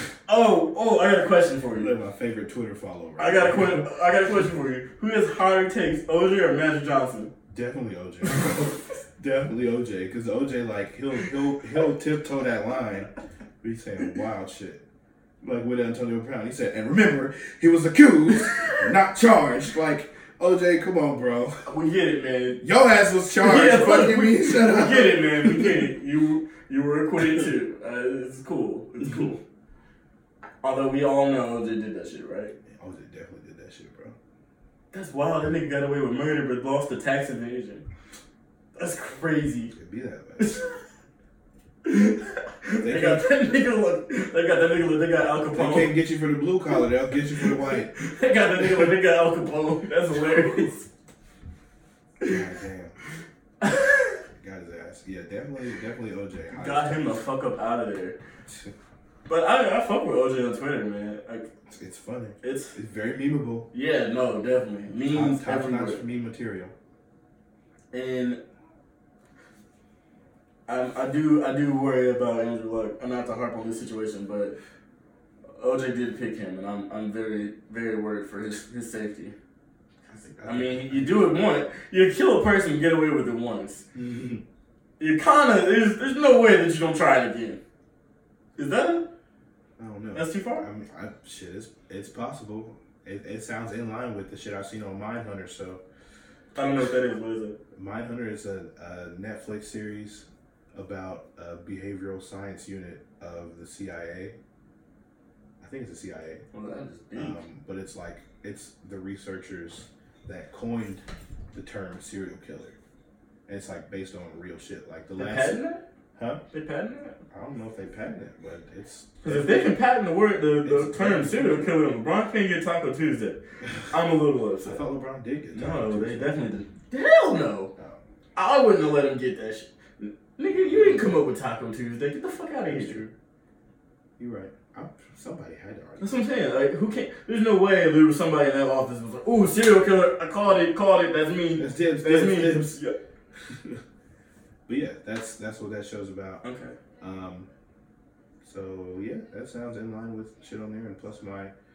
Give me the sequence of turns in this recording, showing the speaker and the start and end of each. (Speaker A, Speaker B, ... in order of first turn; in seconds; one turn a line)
Speaker A: 0.3-1.9
Speaker B: 1.7-3.9
Speaker A: 3.2-7.3
Speaker B: 7.5-13.1
Speaker B: 13.6-14.8
Speaker B: 15.4-21.7
Speaker A: 21.6-22.6
Speaker B: 22.6-25.9
Speaker A: 23.4-29.4
Speaker A: 30.6-32.5
Speaker B: 32.7-34.1
Speaker A: 34.9-37.8
Speaker A: 38.8-39.7
Speaker B: 39.7-40.6
Speaker A: 40.4-40.8
Speaker A: 41.8-45.9
Speaker B: 42.8-43.3
Speaker B: 45.5-47.9
Speaker A: 47.9-50.9
Speaker B: 52.2-52.9
Speaker A: 53.6-54.2
Speaker B: 54.4-57.2
Speaker A: 56.5-58.1
Speaker B: 58.5-58.7
Speaker A: 59.3-61.5
Speaker B: 61.7-63.7
Speaker A: 62.4-62.7
Speaker A: 63.7-66.0
Speaker B: 65.0-66.7
Speaker A: 67.9-68.4
Speaker A: 70.7-74.5
Speaker A: 75.5-79.3
Speaker B: 80.1-81.5
Speaker A: 80.4-83.8
Speaker B: 83.9-84.4
Speaker A: 85.0-87.6
Speaker A: 88.5-89.0
Speaker B: 89.8-95.8
Speaker A: 90.1-90.7
Speaker A: 96.5-97.6
Speaker B: 97.7-104.3
Speaker B: 105.6-106.4
Speaker A: 106.5-107.4
Speaker B: 107.1-112.8
Speaker B: 113.5-115.6
Speaker A: 115.2-115.8
Speaker B: 116.2-116.4
Speaker A: 116.5-117.2
Speaker B: 117.3-119.8
Speaker A: 119.2-124.8
Speaker B: 120.6-121.7
Speaker B: 124.6-126.4
Speaker A: 125.5-127.7
Speaker A: 128.3-133.1
Speaker B: 130.6-131.1
Speaker B: 132.7-133.1
Speaker B: 134.2-136.2
Speaker A: 136.0-143.0
Speaker B: 141.6-142.8
Speaker B: 143.4-143.8
Speaker B: 144.7-146.4
Speaker A: 146.4-146.7
Speaker B: 147.0-147.5
Speaker B: 148.4-151.5